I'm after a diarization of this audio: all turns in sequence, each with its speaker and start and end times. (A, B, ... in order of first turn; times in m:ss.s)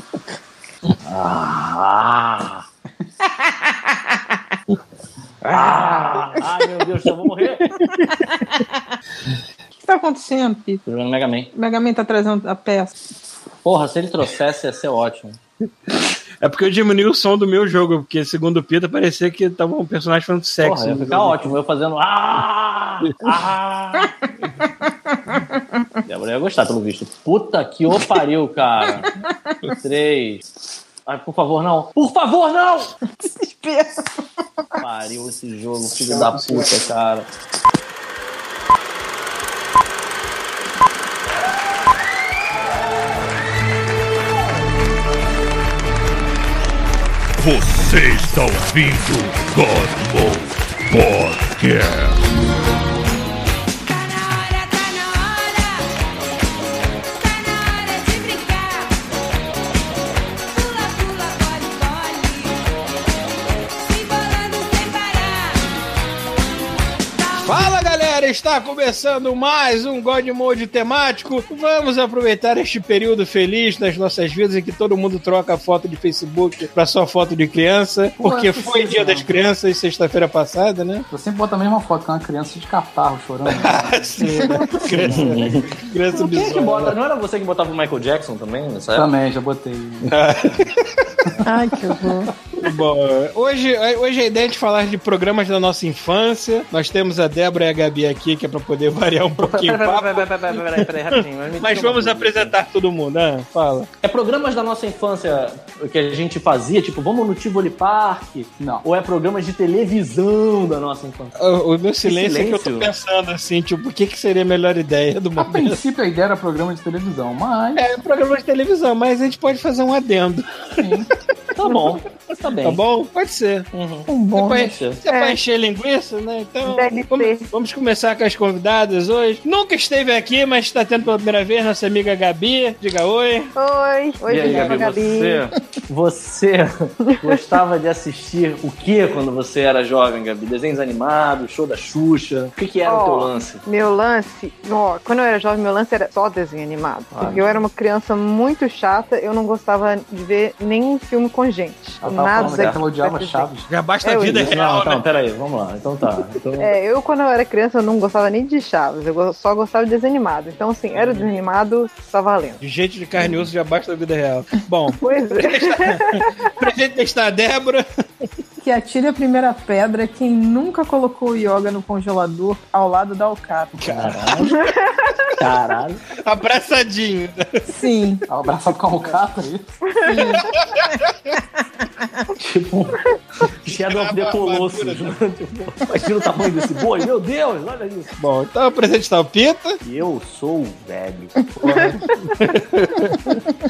0:01.0-0:02.6 A
0:05.5-0:07.7 A
0:07.8-0:08.1 B
0:08.3-0:08.6 C
0:09.8-0:10.8 C
0:10.8-0:11.5 A
0:11.6-0:12.9 D
0:11.7-0:12.9 C
0:13.6-0:15.4 A
0:16.4-0:21.5 B
0:20.6-0:24.1 A
0:24.8-0:25.6 C
0:26.1-0:29.2 A
0:29.2-0:29.7 C
0:29.8-0:30.4 A
0:31.0-0:32.9 A
0:33.2-0:34.0 C
0:34.8-0:37.3 A
0:36.2-0:36.5 E
0:47.4-0:52.3 F
0:53.8-0:55.9 G
0:57.2-0:58.9 G
1:00.5-1:02.6 G
1:03.8-1:05.7 G
1:07.1-1:07.7 G
1:07.4-1:21.0 B
1:18.2-1:19.3 E
1:21.1-1:25.5 E
1:23.5-1:27.0 B
1:24.4-1:24.8 C
1:25.0-1:29.1 A
1:28.9-1:30.1 E
1:30.0-1:30.9 B
1:31.4-1:32.3 C
1:32.6-1:43.9 B
1:39.4-1:42.5 A
1:44.0-1:51.3 A
1:48.6-1:48.8 E
1:51.4-1:55.8 B
1:52.0-1:52.9 A
1:55.4-1:57.8 E
1:57.8-2:01.0 B
2:00.8-2:01.1 E
2:01.5-2:02.8 A
2:02.6-2:03.7 B
2:03.7-2:05.0 A
2:04.1-2:04.7 C
2:04.3-2:13.5 B
2:05.1-2:05.4 D
2:06.6-2:07.5 D
2:13.6-2:15.4 D
2:14.3-2:23.6 A
2:22.8-2:33.5 D
2:27.1-2:27.5 A
2:32.0-2:33.7 E
2:32.0-2:32.8 A
2:33.7-2:35.0 B
2:34.0-2:34.5 D
2:34.3-2:36.7 A
2:36.6-2:42.6 D
2:40.9-2:41.3 B
2:42.6-2:47.8 B
2:45.0-2:46.5 D
2:48.6-2:53.8 C
2:53.8-2:54.6 A
2:53.9-2:54.6 B
2:54.5-2:54.9 D
2:55.4-2:56.0 A
2:56.2-2:57.6 B
2:57.7-2:58.2 C
2:58.3-2:59.7 E
3:00.0-3:00.4 D
3:00.0-3:01.0 C
3:02.4-3:03.0 A
3:03.6-3:08.1 A
3:03.6-3:05.2 B
3:08.2-3:09.8 B
3:09.8-3:11.3 A
3:11.6-3:11.9 D
3:11.7-3:13.4 B